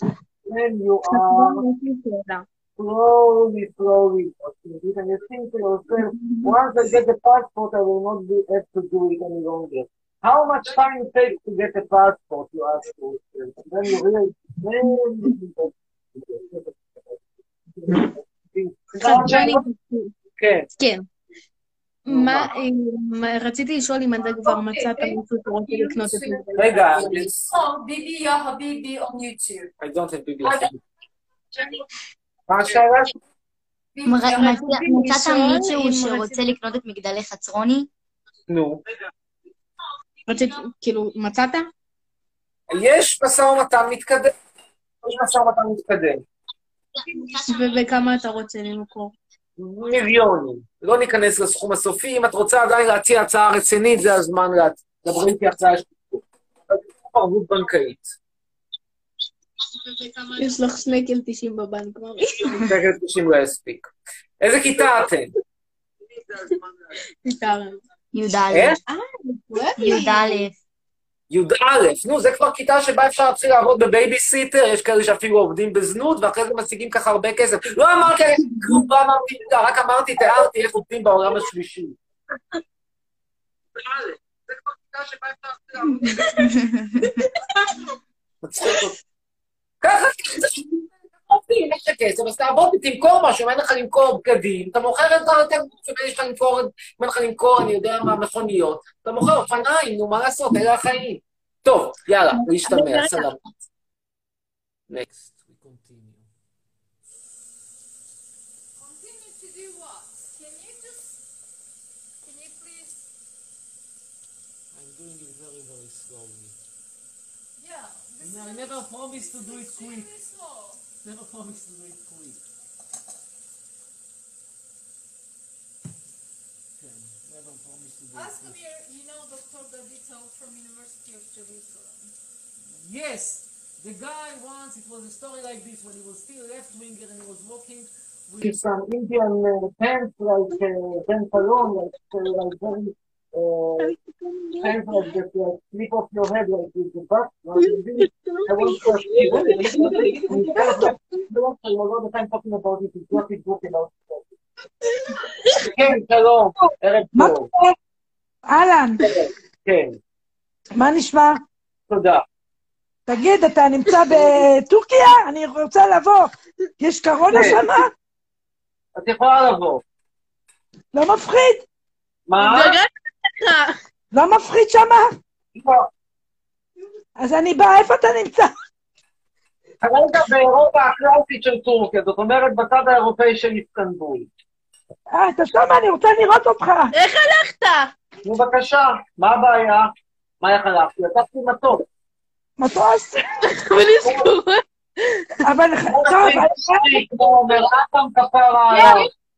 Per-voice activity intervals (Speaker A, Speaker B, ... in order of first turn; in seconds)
Speaker A: 0.5-1.6, 2.8-17.1, 17.8-19.6, 20.4-20.7, 22.1-22.5, 26.6-27.5, 29.8-30.8, 32.5-33.1, 38.5-38.8, 42.7-44.3, 45.0-46.2, 49.6-58.1, 62.5-65.3, 68.5-68.8, 71.3-82.0, 83.8-86.3, 88.4-89.0, 89.8-103.4, 138.4-144.0, 144.6-154.2, 155.6-157.5, 159.0-160.0, 161.9-162.2, 167.3-167.6, 169.0-169.8, 172.3-172.8, 175.6-175.9, 179.8-184.3, 188.2-191.8, 195.9-199.1
Speaker B: 1.6-2.3, 6.2-6.5, 19.0-20.1, 20.8-21.1, 22.1-27.2, 34.5-36.4, 40.3-41.7, 47.3-49.1, 59.9-62.7, 67.2-67.8, 68.9-70.4, 102.5-103.2, 148.2-150.4, 187.1-187.7, 193.5-194.5
Speaker C: 24.4-29.7, 30.4-30.7, 31.6-31.8, 34.0-35.1, 172.4-172.9, 187.0-187.3, 198.7-199.0
Speaker D: 34.1-37.9, 68.1-68.8, 69.8-70.5
Speaker E: 104.9-106.3, 114.7-116.6, 118.2-120.1, 121.0-122.5, 126.8-128.6, 132.6-138.6
Speaker F: 108.8-111.1, 112.2-113.0, 117.6-120.8, 128.1-132.1
Speaker G: 158.5-159.0, 160.8-161.4, 163.1-167.9, 170.9-171.7, 174.1-175.2, 177.2-178.5, 185.1-186.9, 192.6-193.5, 195.4-197.0